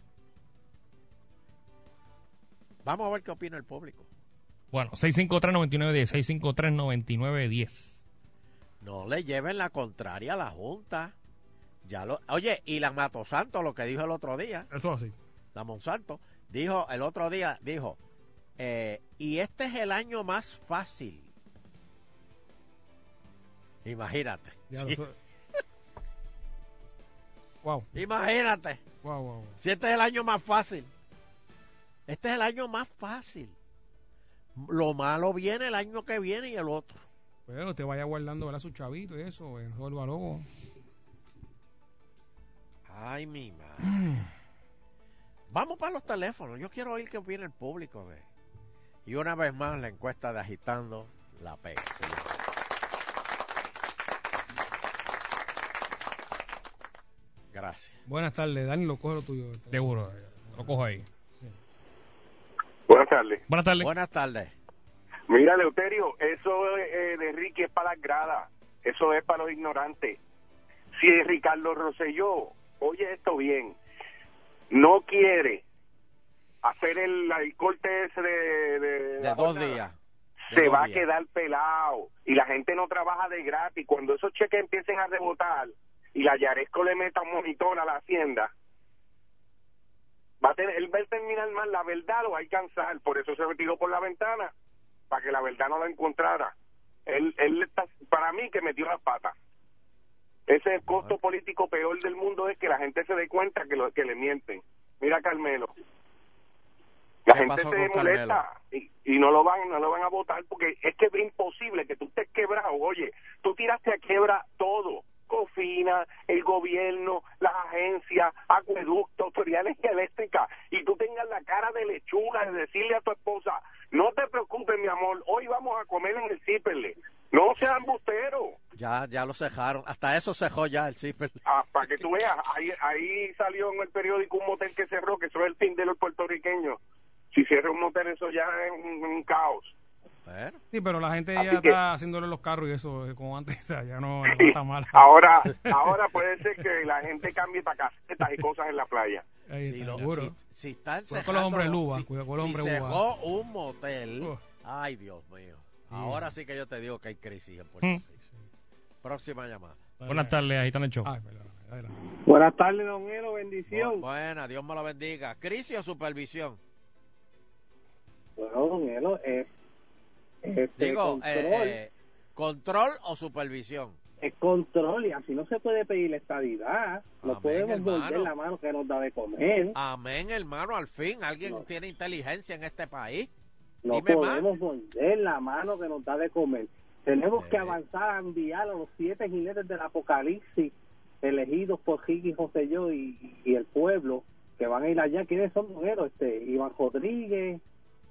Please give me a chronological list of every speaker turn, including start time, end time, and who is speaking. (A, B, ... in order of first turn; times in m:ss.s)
0:02.8-0:04.1 A
0:04.7-0:08.0 B
0:08.8-0:11.2 A
0:11.8-0:14.7 A
0:14.7-0:15.2 C
0:15.5-0:18.0 A
0:18.6-0:21.3 A
0:23.8-0:25.0 A
0:24.7-0:25.2 C
0:27.6-0:27.9 C
0:27.9-0:28.8 A
0:29.0-0:29.6 C
0:29.6-0:30.9 A
0:32.1-0:33.6 A
0:34.6-0:37.0 A
0:37.5-0:40.5 C
0:42.9-0:44.0 A
0:43.8-0:44.3 C
0:45.5-0:48.3 A
0:49.1-0:52.4 A
0:57.5-0:58.0 A
0:58.1-1:00.8 C
0:59.7-1:01.0 B
1:02.9-1:03.4 D
1:03.5-1:03.9 B
1:03.8-1:04.5 A
1:05.3-1:10.2 D
1:11.0-1:13.8 D
1:14.7-1:15.6 D
1:16.6-1:19.8 D
1:19.2-1:20.0 A
1:20.5-1:28.5 D
1:20.5-1:21.1 A
1:30.4-1:34.5 D
1:35.1-1:36.5 D
1:37.1-1:39.3 D
1:40.5-1:45.7 D
1:40.9-1:41.2 A
1:47.3-2:08.6 D
1:47.3-1:48.4 A
2:08.8-2:11.4 A
2:11.5-2:16.8 D
2:17.3-2:19.7 D
2:20.3-2:20.6 A
2:20.7-2:25.8 C
2:21.4-2:21.8 D
2:24.3-2:29.2 D
2:29.5-2:30.4 C
2:29.6-2:38.0 A
2:31.1-2:33.0 C
2:35.9-2:36.3 C
2:39.0-2:39.9 A
2:40.0-2:40.4 C
2:40.1-2:41.1 B
2:41.0-2:42.0 C
2:42.3-2:44.0 E
2:43.7-2:46.6 A
2:48.4-2:49.5 E
2:50.4-2:51.8 E
2:50.8-2:54.0 A
2:54.2-2:59.8 E
2:57.2-2:58.3 A
2:59.7-3:03.3 A
3:03.8-3:17.6 E
3:03.9-3:04.5 A
3:07.3-3:07.8 A